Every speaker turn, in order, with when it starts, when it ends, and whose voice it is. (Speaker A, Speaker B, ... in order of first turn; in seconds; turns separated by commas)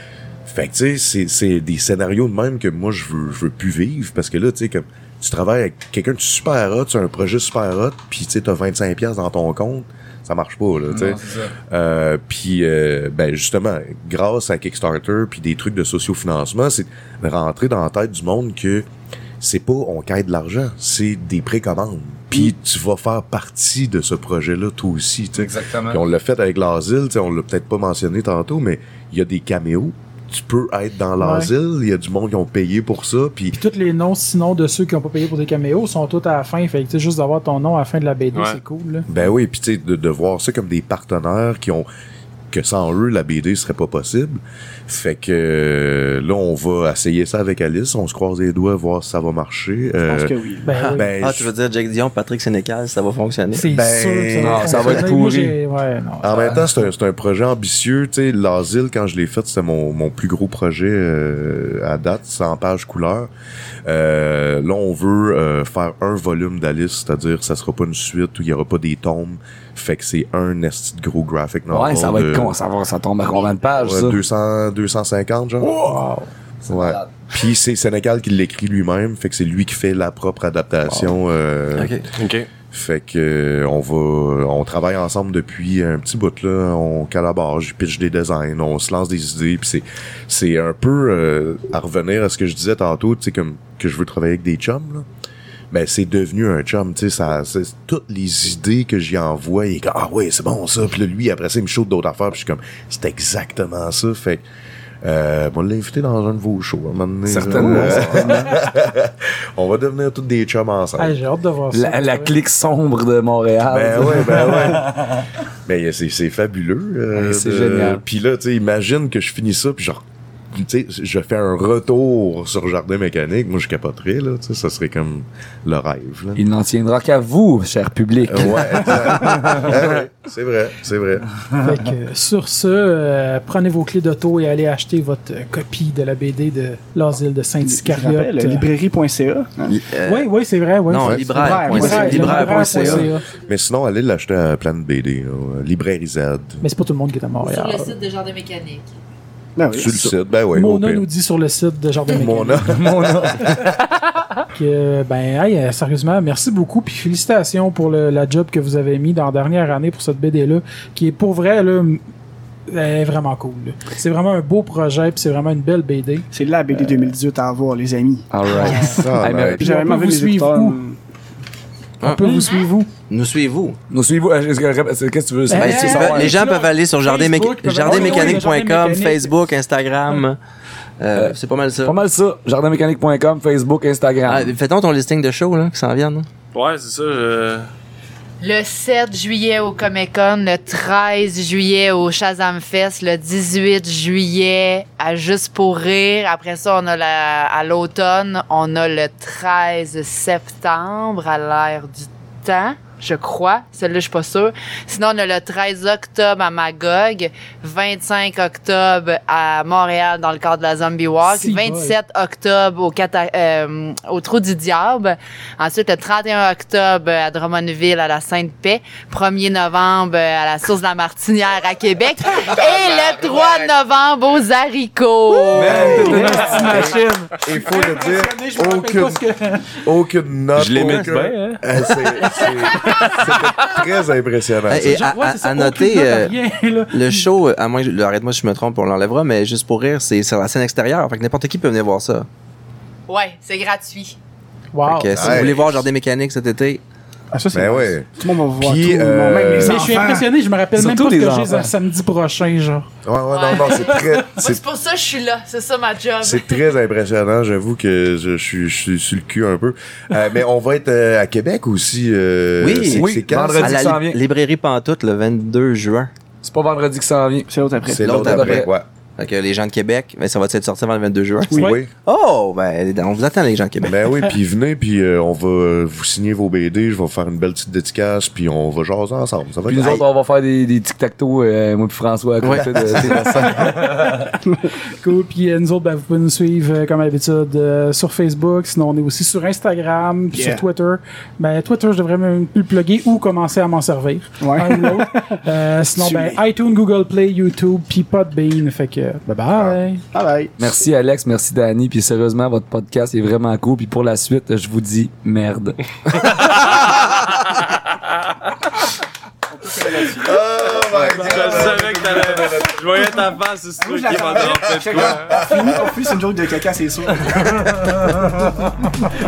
Speaker A: 0.5-18.9, Speaker B: 10.9-11.5, Speaker A: 19.4-33.6, Speaker B: 25.4-26.0, Speaker C: 31.2-31.5, Speaker C: 33.5-39.1, Speaker D: 38.3-38.6, Speaker A: 39.1-41.9, Speaker A: 42.5-51.5, Speaker E: 50.0-50.8, Speaker C: 50.6-51.1, Speaker F: 50.7-53.7, Speaker C: 53.5-56.9, Speaker A: 53.7-55.0, Speaker B: 54.4-55.5, Speaker A: 56.2-63.3, Speaker A: 63.8-72.5, Speaker B: 71.7-74.2, Speaker A: 73.8-75.8, Speaker C: 75.7-76.3, Speaker B: 76.7-77.2, Speaker A: 76.7-82.0, Speaker F: 81.7-82.0, Speaker D: 82.2-82.5, Speaker A: 82.7-95.0, Speaker A: 95.7-104.4, Speaker A: 105.0-111.2, Speaker B: 107.2-108.6, Speaker C: 111.0-112.3, Speaker B: 111.7-115.2, Speaker A: 113.7-115.0, Speaker A: 115.7-126.4, Speaker B: 117.1-118.0, Speaker B: 126.3-130.0, Speaker A: 128.2-131.3, Speaker C: 131.6-138.7, Speaker E: 137.6-139.7, Speaker F: 139.7-140.3, Speaker C: 140.0-143.2, Speaker F: 140.9-143.1, Speaker A: 141.0-141.6, Speaker E: 141.4-143.1, Speaker A: 143.0-146.6, Speaker C: 146.6-147.9, Speaker G: 147.4-148.9, Speaker E: 149.6-150.0, Speaker A: 149.7-151.1, Speaker C: 150.5-152.8, Speaker A: 152.1-153.6, Speaker B: 152.7-153.8, Speaker C: 154.5-162.0, Speaker C: 162.7-167.1, Speaker E: 166.3-171.0, Speaker B: 168.3-169.7, Speaker C: 168.6-169.0, Speaker A: 168.7-169.6, Speaker C: 169.6-170.8, Speaker F: 172.0-172.5, Speaker C: 172.0-172.9, Speaker G: 172.3-172.7, Speaker F: 173.1-173.8, Speaker B: 173.9-176.4, Speaker C: 175.5-179.4, Speaker F: 175.6-180.4, Speaker F: 181.0-182.0, Speaker B: 181.1-184.5, Speaker F: 184.2-186.3, Speaker D: 186.5-187.7, Speaker G: 188.4-226.3, Speaker C: 211.2-211.9, Speaker A: 222.2-223.7, Speaker C: 225.3-229.8, Speaker B: 225.5-227.0, Speaker A: 225.8-229.2, Speaker A: 229.8-235.1, Speaker D: 230.5-231.8, Speaker C: 230.8-231.5, Speaker C: 232.2-233.3, Speaker F: 234.7-236.3, Speaker C: 234.8-237.3, Speaker F: 236.9-242.3, Speaker G: 243.1-244.2, Speaker C: 244.7-245.4, Speaker F: 244.8-246.8, Speaker A: 245.1-245.7, Speaker E: 247.3-250.3, Speaker A: 247.5-250.0, Speaker C: 249.6-252.9, Speaker B: 250.8-251.7, Speaker A: 253.0-254.6, Speaker G: 253.3-256.7, Speaker A: 256.2-263.9, Speaker F: 262.6-266.1, Speaker B: 262.9-264.2, Speaker B: 266.4-267.5, Speaker E: 267.5-268.1, Speaker A: 267.9-268.9, Speaker B: 268.0-268.7, Speaker F: 268.0-274.1, Speaker C: 271.5-271.8, Speaker A: 271.6-271.9, Speaker A: 273.8-279.9, Speaker B: 279.7-284.3, Speaker F: 282.4-283.7, Speaker E: 284.5-284.7, Speaker C: 284.9-300.0, Speaker E: 290.3-290.6, Speaker E: 294.4-295.4, Speaker E: 295.9-296.4, Speaker E: 300.1-300.6, Speaker B: 300.6-305.8, Speaker D: 306.3-307.7, Speaker E: 309.5-311.3, Speaker A: 310.2-312.8, Speaker B: 311.0-311.9, Speaker D: 311.1-315.4, Speaker E: 313.8-317.7, Speaker A: 314.6-315.4, Speaker B: 317.3-319.1